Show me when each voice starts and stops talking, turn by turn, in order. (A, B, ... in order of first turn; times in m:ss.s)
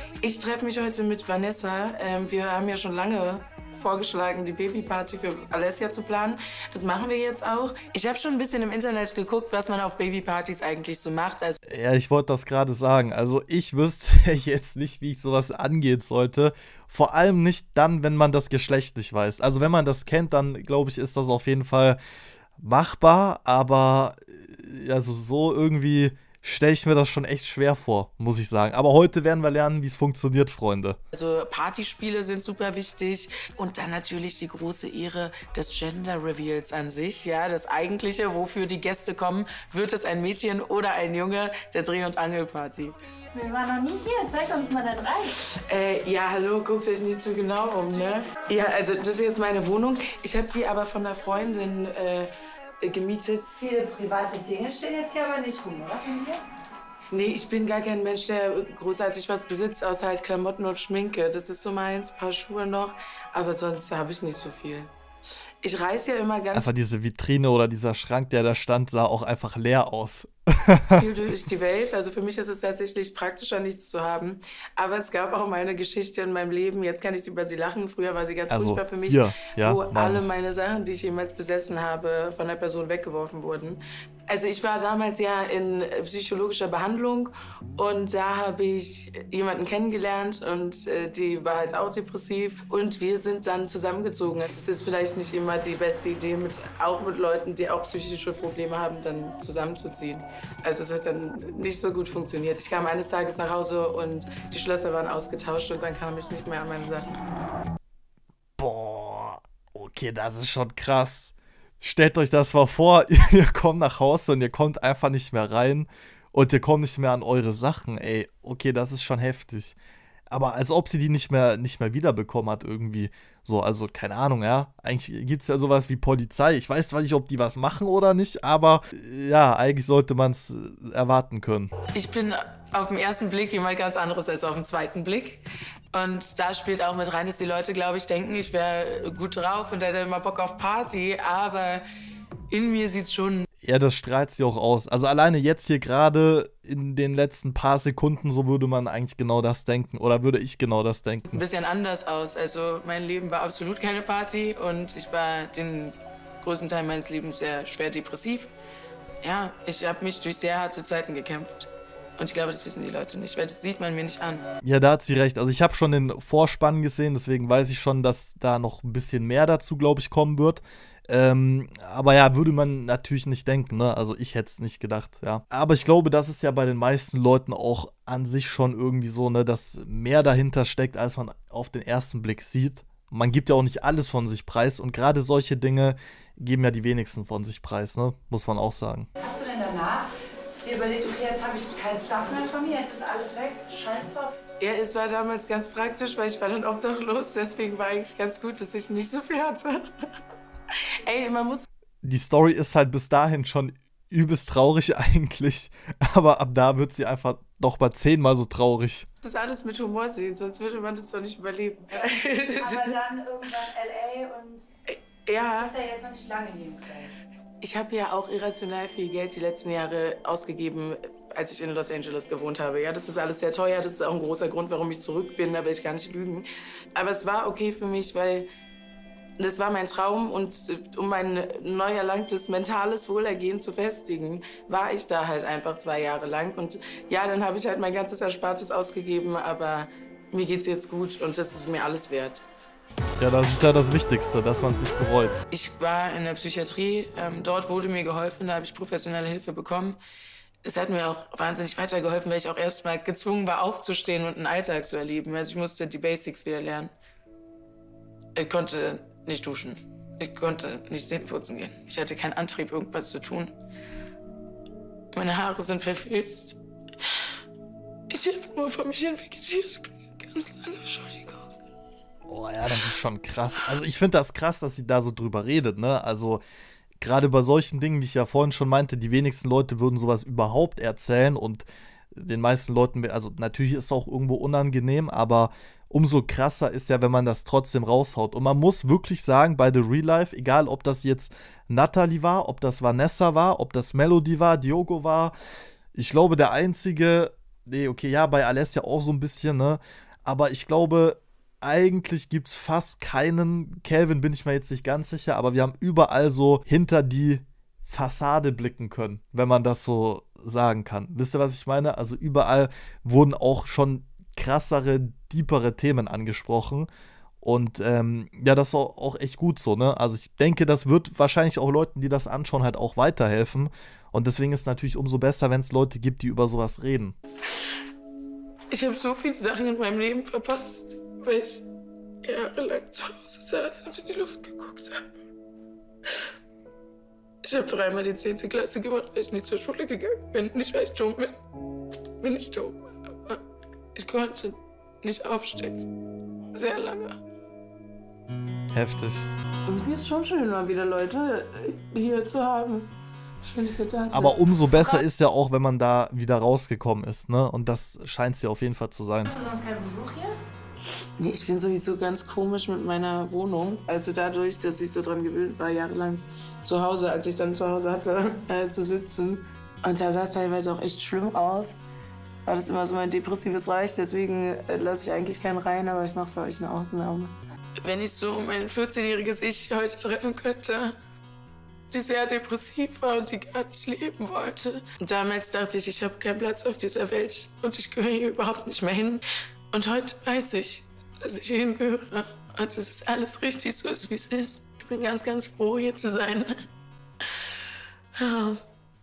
0:00.2-0:11.6 A
0:11.7-0:22.0 B
0:22.6-0:31.0 B
0:31.1-0:43.0 A
0:43.3-0:45.3 C
0:45.4-0:52.3 A
0:52.8-0:53.5 A
0:53.6-0:56.4 C
0:57.1-1:04.9 A
1:05.6-1:06.7 A
1:06.5-1:11.0 B
1:11.0-1:47.2 A
1:18.5-1:20.3 B
1:48.6-1:59.8 B
2:00.3-2:11.7 B
2:11.9-2:21.8 A
2:22.5-2:23.5 A
2:23.6-2:31.4 B
2:31.3-2:38.5 A
2:39.2-2:44.5 A
2:44.6-3:09.1 B
3:09.2-3:10.1 C
3:10.6-3:14.3 C
3:14.6-3:19.9 A
3:21.0-3:21.7 A
3:22.0-3:29.1 B
3:29.2-3:33.6 A
3:32.6-3:34.6 C
3:34.9-3:35.8 A
3:35.4-3:37.1 C
3:37.6-3:48.5 A
3:49.4-4:02.4 A
4:03.2-4:05.4 B
4:05.5-4:10.0 A
4:10.6-4:16.9 A
4:18.4-4:23.6 A
4:25.1-4:26.6 A
4:28.1-4:31.5 A
4:32.3-4:36.4 B
4:37.0-4:55.4 B
4:56.0-5:16.9 B
5:17.4-5:27.2 B
5:28.7-5:31.6 A
5:32.2-5:35.2 A
5:37.4-5:41.4 A
5:42.2-5:43.4 A
5:44.0-5:45.8 A
5:46.5-5:47.2 A
5:48.7-5:49.3 B
5:49.7-5:55.0 A
5:54.1-5:59.4 B
5:59.4-6:00.1 A
5:59.6-6:00.2 C
6:01.2-6:11.8 A
6:12.4-6:21.0 A
6:21.9-6:36.5 A
6:38.2-6:38.6 A